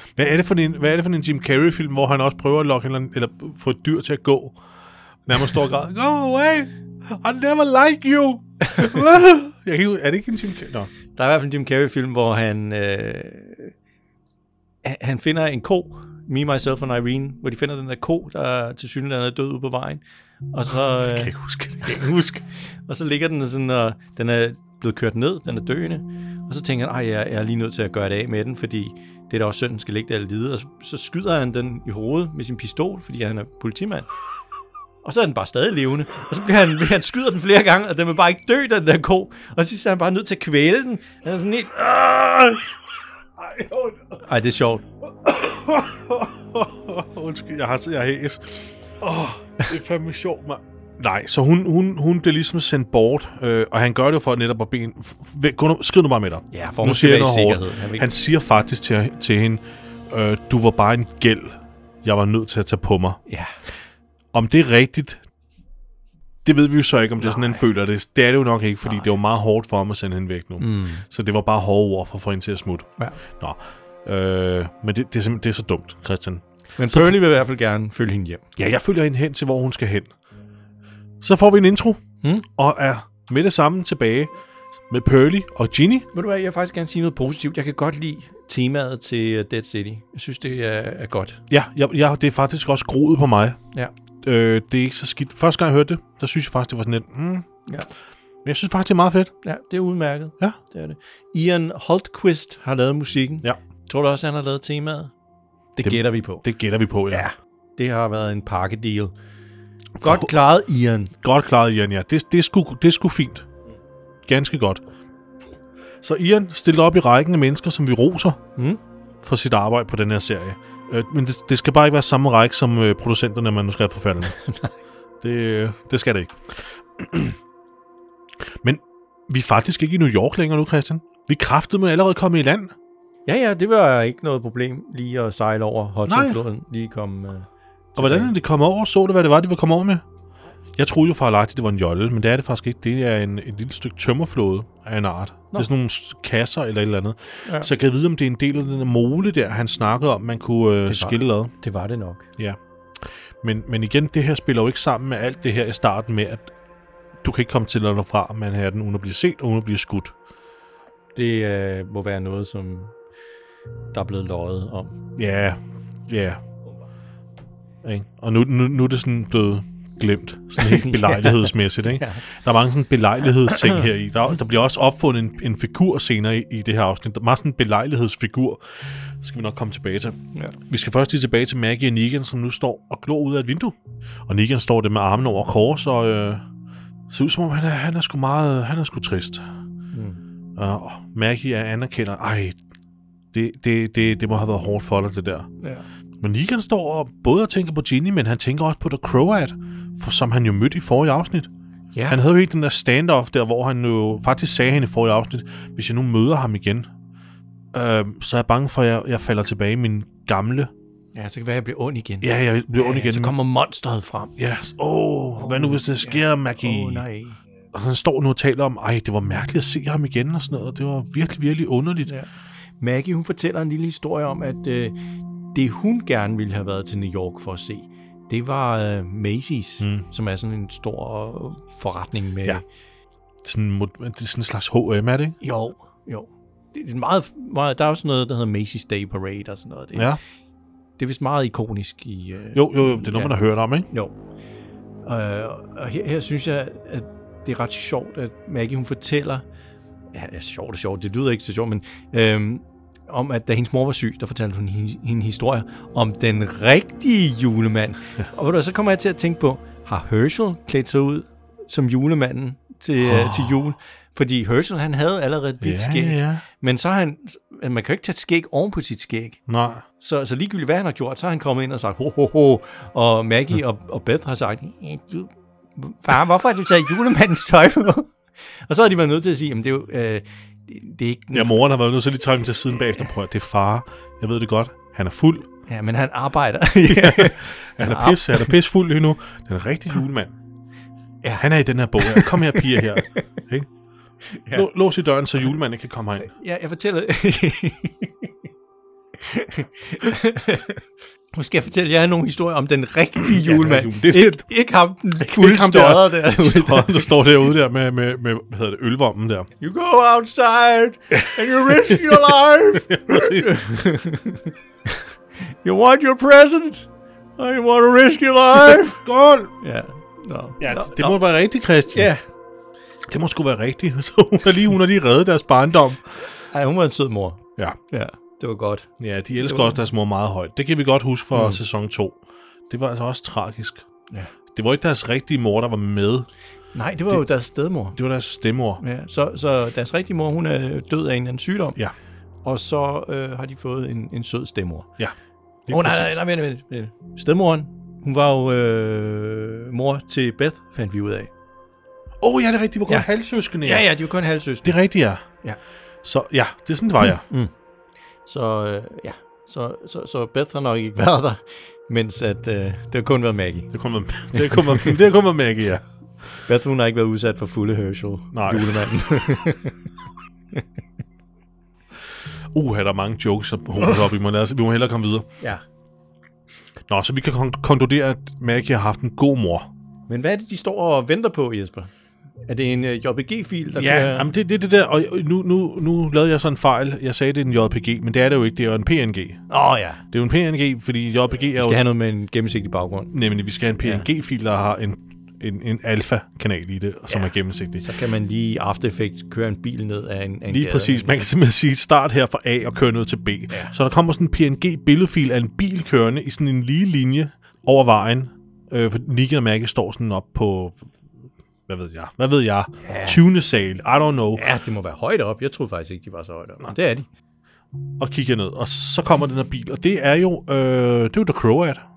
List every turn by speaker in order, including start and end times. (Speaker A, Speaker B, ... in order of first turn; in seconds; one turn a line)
Speaker A: 0.2-4.6
Speaker A: 5.2-10.9
Speaker B: 8.8-9.0
Speaker B: 11.1-13.7
Speaker B: 14.8-21.3
Speaker A: 20.9-22.5
Speaker B: 22.6-34.1
Speaker B: 35.0-42.7
Speaker A: 43.4-43.9
Speaker B: 44.2-44.8
Speaker A: 45.2-63.2
Speaker B: 56.5-58.1
Speaker B: 63.2-63.5
Speaker A: 64.3-65.2
Speaker A: 66.4-77.2
Speaker B: 67.2-67.6
Speaker B: 70.6-71.0
Speaker B: 76.8-78.4
Speaker A: 78.6-80.1
Speaker A: 81.2-84.3
Speaker A: 84.9-86.1
Speaker B: 86.1-91.4
Speaker A: 91.5-93.6
Speaker A: 94.2-97.5
Speaker A: 98.4-99.3
Speaker B: 99.4-105.1
Speaker B: 105.7-106.4
Speaker A: 105.8-107.3
Speaker B: 107.1-109.1
Speaker A: 110.0-110.3
Speaker B: 110.0-111.1
Speaker A: 111.2-113.5
Speaker A: 114.3-114.8
Speaker A: 116.0-118.4
Speaker A: 119.2-124.4
Speaker B: 124.3-124.7
Speaker A: 125.2-126.3
Speaker A: 127.0-127.4
Speaker A: 128.6-132.7
Speaker B: 133.2-138.3
Speaker A: 136.1-136.4
Speaker A: 138.0-140.0
Speaker A: 140.8-151.5
Speaker B: 150.9-152.2
Speaker A: 153.4-156.5
Speaker A: 157.2-160.1
Speaker B: 161.1-162.9
Speaker B: 163.9-165.0
Speaker A: 165.2-166.4
Speaker A: 167.8-178.6
Speaker B: 170.6-172.2
Speaker B: 173.4-173.9
Speaker A: 179.2-186.4
Speaker A: 187.1-189.4
Speaker B: 189.9-190.2
Speaker A: 190.6-192.6
Speaker A: 193.3-195.5
Speaker B: 195.6-195.8
Speaker A: 196.2-201.5
Speaker B: 201.9-202.2
Speaker A: 202.1-206.9
Speaker A: 207.7-210.7
Speaker B: 211.1-214.3
Speaker A: 212.2-213.3
Speaker A: 214.4-217.1
Speaker B: 215.4-217.4
Speaker A: 217.7-222.1
Speaker B: 222.1-224.9
Speaker B: 225.5-232.6
Speaker A: 229.8-230.1
Speaker A: 233.4-235.4
Speaker B: 235.4-240.1
Speaker B: 241.0-243.3
Speaker A: 242.5-243.9
Speaker B: 243.9-244.2
Speaker B: 245.0-249.4
Speaker B: 250.1-269.4
Speaker A: 263.0-263.6
Speaker A: 265.6-266.4
Speaker A: 269.5-269.8
Speaker B: 270.0-281.5
Speaker A: 281.3-285.5
Speaker B: 285.7-288.5
Speaker A: 286.9-290.3
Speaker A: 291.4-293.7
Speaker B: 292.0-293.2
Speaker B: 294.2-294.7
Speaker A: 294.5-296.3
Speaker B: 296.2-298.3
Speaker B: 299.2-307.1
Speaker A: 303.2-304.4
Speaker A: 305.2-309.5
Speaker B: 309.6-319.0
Speaker A: 311.1-313.6
Speaker A: 319.0-319.5
Speaker B: 319.6-321.2
Speaker A: 320.6-322.1
Speaker B: 321.9-322.2
Speaker A: 323.1-326.3
Speaker B: 326.5-329.8
Speaker A: 329.0-332.2
Speaker B: 331.3-331.6
Speaker A: 332.7-333.8
Speaker A: 334.5-336.3
Speaker B: 336.7-337.9
Speaker A: 337.9-338.8
Speaker B: 338.8-341.8
Speaker B: 342.4-344.9
Speaker A: 345.7-346.2
Speaker B: 345.7-351.3
Speaker A: 352.2-353.9
Speaker B: 353.6-354.8
Speaker A: 354.6-355.2
Speaker A: 356.0-357.3
Speaker B: 357.0-357.5
Speaker B: 358.2-363.7
Speaker A: 363.7-365.9
Speaker B: 364.3-365.0
Speaker B: 366.5-369.8
Speaker A: 368.3-368.8
Speaker A: 372.5-375.3
Speaker A: 376.9-379.7
Speaker B: 380.1-381.9
Speaker B: 382.5-384.3
Speaker A: 383.8-389.4
Speaker B: 389.5-390.0
Speaker A: 390.1-391.8
Speaker B: 391.6-393.1
Speaker A: 393.1-397.9
Speaker B: 397.8-401.1
Speaker A: 400.5-410.9
Speaker A: 411.7-414.4
Speaker B: 412.8-413.2
Speaker B: 414.4-417.1
Speaker A: 418.0-421.8